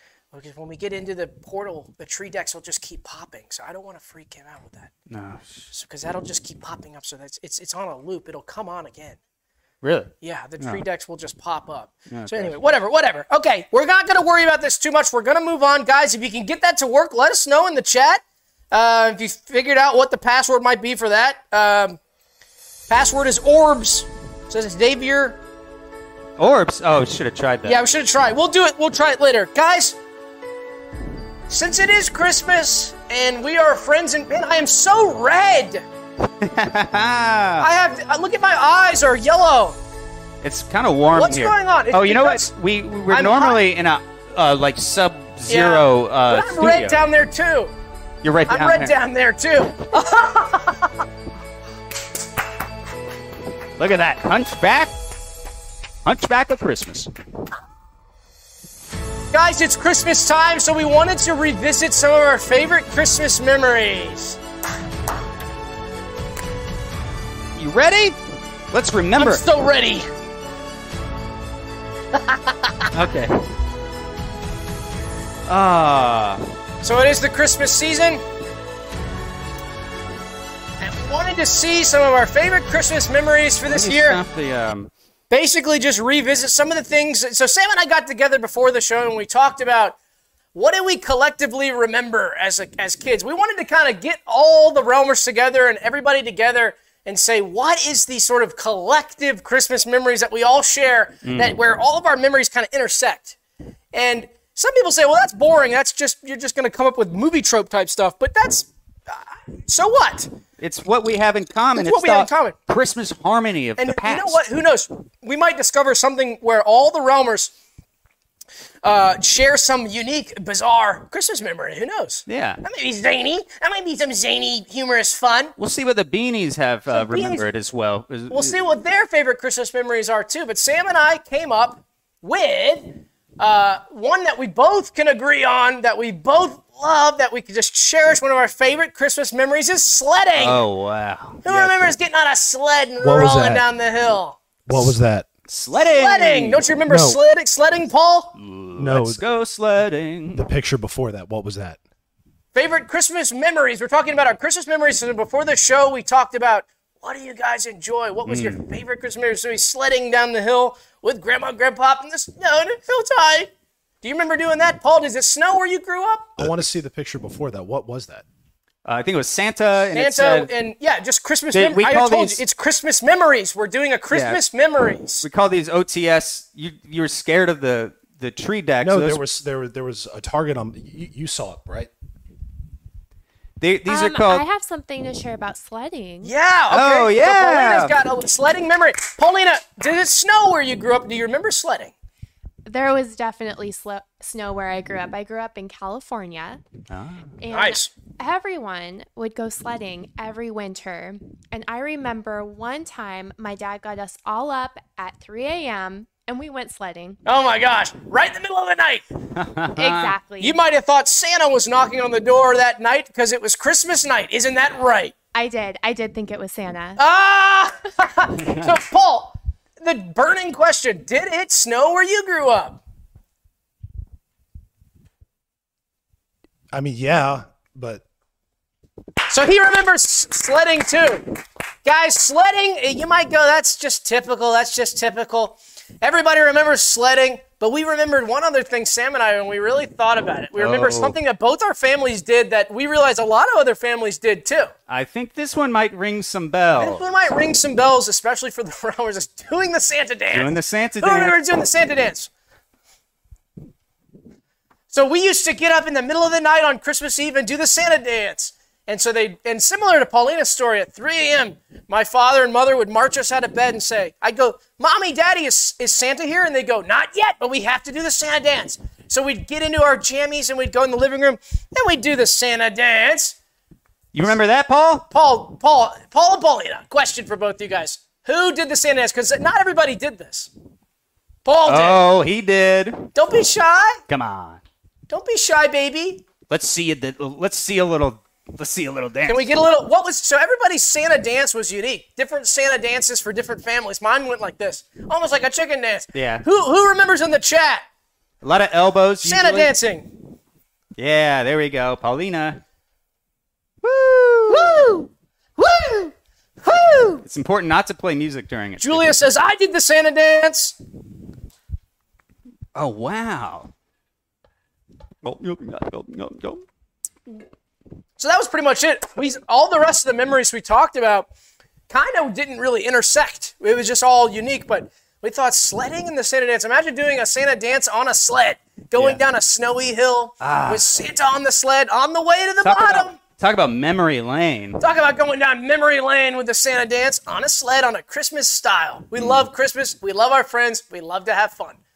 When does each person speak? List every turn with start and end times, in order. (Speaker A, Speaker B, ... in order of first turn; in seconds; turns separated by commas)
Speaker A: 0.3-4.9, Speaker B: 5.1-5.7, Speaker A: 5.7-9.2, Speaker B: 9.8-10.8, Speaker A: 10.2-22.0, Speaker B: 12.1-12.6, Speaker A: 22.9-25.4, Speaker B: 26.4-27.8, Speaker A: 27.6-30.0, Speaker A: 31.5-35.8, Speaker B: 36.4-37.7, Speaker A: 37.6-39.8, Speaker B: 40.4-47.0, Speaker A: 41.1-42.5, Speaker A: 43.1-43.6, Speaker A: 45.5-47.7, Speaker B: 48.2-48.9, Speaker A: 48.5-50.9, Speaker B: 53.8-54.9, Speaker B: 56.0-57.1, Speaker A: 59.3-64.4, Speaker B: 67.5-68.2, Speaker B: 68.7-69.4, Speaker A: 69.2-70.1, Speaker A: 72.2-72.9, Speaker B: 72.9-73.4, Speaker B: 75.5-76.5, Speaker A: 76.8-78.2, Speaker A: 80.8-84.2, Speaker B: 83.7-84.9, Speaker A: 85.3-90.0, Speaker A: 90.5-103.3, Speaker B: 101.2-101.5, Speaker A: 103.9-110.3, Speaker B: 110.6-114.4, Speaker A: 111.8-112.5, Speaker A: 113.8-117.5, Speaker A: 118.8-125.5, Speaker B: 122.3-122.6, Speaker B: 125.6-128.6, Speaker A: 126.9-127.5, Speaker A: 128.3-140.6, Speaker B: 140.4-141.4, Speaker A: 141.4-144.4, Speaker C: 141.5-141.7, Speaker C: 143.0-143.7, Speaker C: 144.7-145.3, Speaker B: 145.5-146.6, Speaker A: 145.7-148.3, Speaker C: 146.9-147.2, Speaker B: 148.3-150.5, Speaker C: 148.8-149.2, Speaker C: 150.3-151.8, Speaker A: 152.5-163.5, Speaker B: 158.3-158.6, Speaker A: 164.0-166.4, Speaker C: 166.4-168.2, Speaker B: 168.8-170.5, Speaker A: 169.9-175.2, Speaker B: 171.5-172.4, Speaker B: 174.1-174.4, Speaker B: 175.2-179.2, Speaker C: 178.8-181.9, Speaker B: 183.6-184.4, Speaker D: 183.9-186.3, Speaker A: 186.2-191.9, Speaker B: 186.7-187.9, Speaker D: 192.7-196.6, Speaker B: 196.9-197.3, Speaker D: 197.4-207.2, Speaker A: 197.5-197.9, Speaker A: 207.2-209.0, Speaker B: 209.4-210.1, Speaker D: 209.8-210.6, Speaker A: 210.4-215.1, Speaker D: 215.3-217.0, Speaker A: 217.0-222.8, Speaker C: 226.7-228.0, Speaker A: 229.3-244.7, Speaker B: 240.6-241.2, Speaker B: 244.9-247.1, Speaker A: 246.8-252.3, Speaker B: 250.3-251.4, Speaker A: 254.9-273.4, Speaker B: 274.1-275.1, Speaker A: 275.1-280.5, Speaker A: 281.4-282.0, Speaker B: 281.7-283.1, Speaker A: 283.1-284.0, Speaker B: 284.1-284.6, Speaker A: 285.1-286.2, Speaker B: 286.5-289.5, Speaker A: 289.2-297.8, Speaker B: 296.1-296.4, Speaker B: 298.4-299.7, Speaker A: 299.2-300.1, Speaker B: 300.9-302.6, Speaker B: 303.8-305.0, Speaker A: 304.5-307.2, Speaker B: 307.2-309.1, Speaker A: 308.8-310.8, Speaker B: 312.7-313.7, Speaker B: 315.2-316.6, Speaker A: 318.2-321.3, Speaker A: 321.9-333.2, Speaker B: 330.4-330.9, Speaker B: 332.6-334.8, Speaker A: 334.8-341.8